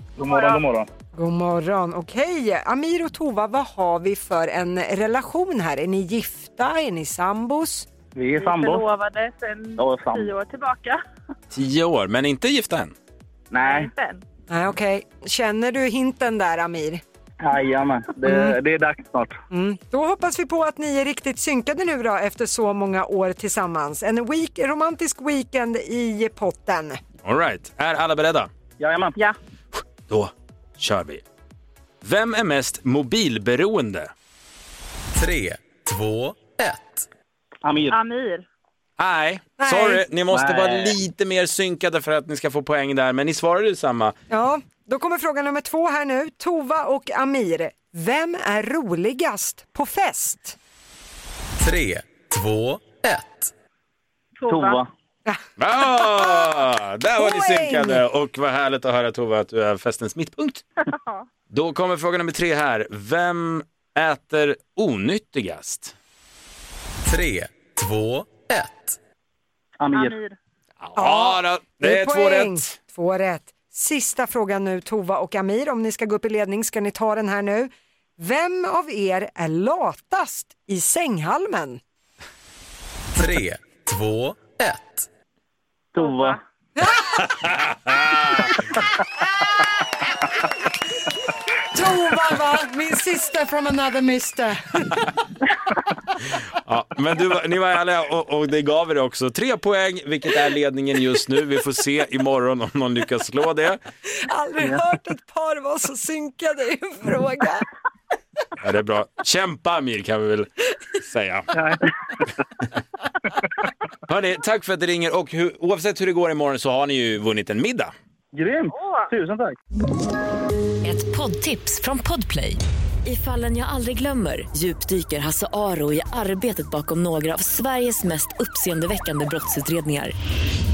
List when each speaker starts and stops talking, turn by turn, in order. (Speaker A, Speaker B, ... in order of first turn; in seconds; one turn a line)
Speaker A: 0.2-0.9
Speaker B: 0.2-0.7
Speaker C: 1.2-7.9
Speaker A: 8.2-8.9
Speaker B: 8.4-11.0
Speaker A: 9.8-10.3
Speaker D: 11.5-12.9
Speaker A: 13.5-13.9
Speaker B: 13.6-14.2
Speaker C: 14.5-17.0
Speaker A: 17.4-19.4
Speaker C: 18.2-18.6
Speaker C: 19.5-27.0
Speaker D: 27.2-28.5
Speaker A: 28.8-29.2
Speaker D: 30.1-31.2
Speaker D: 32.0-34.1
Speaker E: 35.1-37.1
Speaker A: 37.6-38.0
Speaker B: 37.9-38.5
Speaker D: 39.0-44.1
Speaker C: 39.6-40.0
Speaker A: 40.3-41.0
Speaker C: 44.3-50.6
Speaker E: 51.6-53.5
Speaker B: 54.4-54.8
Speaker A: 54.5-54.9
Speaker C: 55.3-56.5
Speaker D: 55.6-60.6
Speaker C: 57.2-58.0
Speaker B: 60.9-61.2
Speaker D: 61.5-65.9
Speaker E: 67.0-69.0
Speaker A: 69.8-70.2
Speaker B: 69.9-70.4
Speaker D: 70.8-72.7
Speaker C: 71.0-81.8
Speaker E: 83.2-85.1
Speaker A: 85.9-86.4
Speaker B: 86.0-86.3
Speaker C: 86.8-87.4
Speaker D: 87.2-88.5
Speaker C: 91.2-95.1
Speaker D: 96.5-103.8
Speaker C: 104.3-107.7
Speaker D: 108.6-111.5
Speaker A: 111.5-111.9
Speaker D: 114.0-117.9
Speaker A: 118.3-119.6
Speaker F: 120.8-130.1